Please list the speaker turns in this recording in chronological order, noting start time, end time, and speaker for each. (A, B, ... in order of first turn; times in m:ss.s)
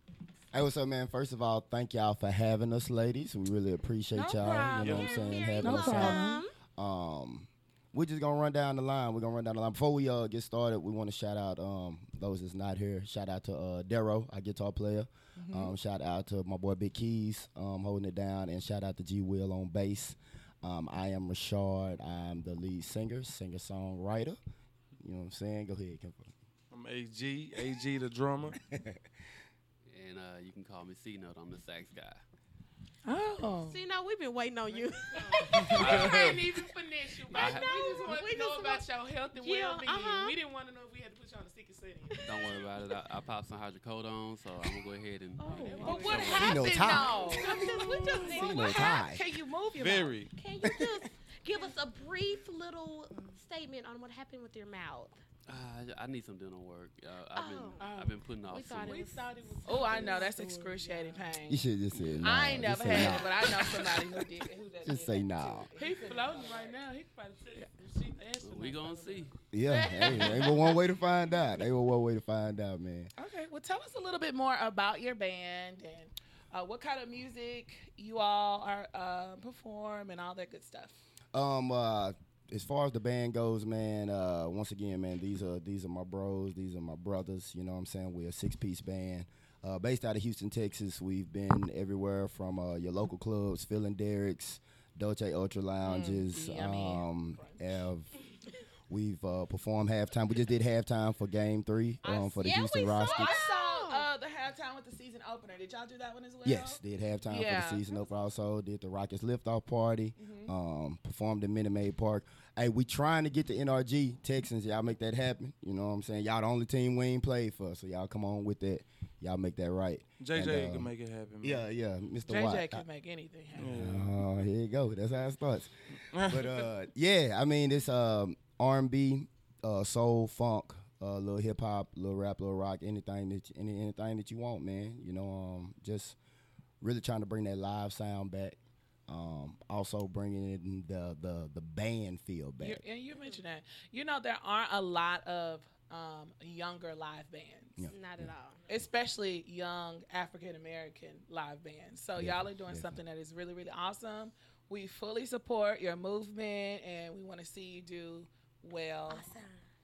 0:00.5-0:24.4 A
0:04.1-0:05.1 B
0:04.8-0:06.5 C
0:04.8-0:05.2 D
0:05.6-0:06.4 B
0:15.4-0:15.7 B
0:25.0-0:26.3 A
0:26.7-0:28.6 D
0:28.7-0:29.0 A
0:29.9-0:32.2 E
0:33.0-0:33.8 B
0:33.6-0:36.4 C
0:34.7-0:42.6 F
0:35.6-0:36.3 D
0:35.6-0:36.5 E
0:37.3-0:38.8 C
0:37.3-0:37.6 E
0:39.3-0:40.3 C
0:42.2-0:47.6 E
0:45.4-0:49.0 C
0:45.4-0:48.4 F
0:45.8-0:50.2 B
0:46.4-0:47.2 A
0:48.2-0:49.2 A
0:49.8-0:50.3 D
0:50.3-0:55.2 C
0:50.6-0:51.0 A
0:53.1-0:53.4 F
0:55.5-0:59.1 E
0:57.3-1:00.3 C
0:57.8-1:01.3 F
0:59.6-1:01.6 B
1:01.5-1:03.7 A
1:02.2-1:06.8 B
1:04.8-1:05.7 A
1:05.8-1:10.7 F
1:08.4-1:09.3 E
1:09.5-1:13.1 A
1:09.7-1:10.5 B
1:13.2-1:21.0 B
1:21.3-1:38.1 A
1:35.9-1:37.7 B
1:38.9-1:43.4 A
1:42.0-1:47.8 B
1:42.4-1:44.1 C
1:46.4-2:00.9 A
1:50.2-1:50.5 B
2:00.2-2:01.6 D
2:01.4-2:02.8 A
2:02.3-2:03.8 B
2:03.6-2:04.3 D
2:03.7-2:16.2 A
2:06.1-2:06.5 D
2:16.8-2:22.8 A
2:22.6-2:27.9 B
2:27.8-2:28.3 A
2:27.9-2:28.6 C
2:28.7-2:39.2 B
2:32.2-2:33.0 A
2:39.1-2:39.6 C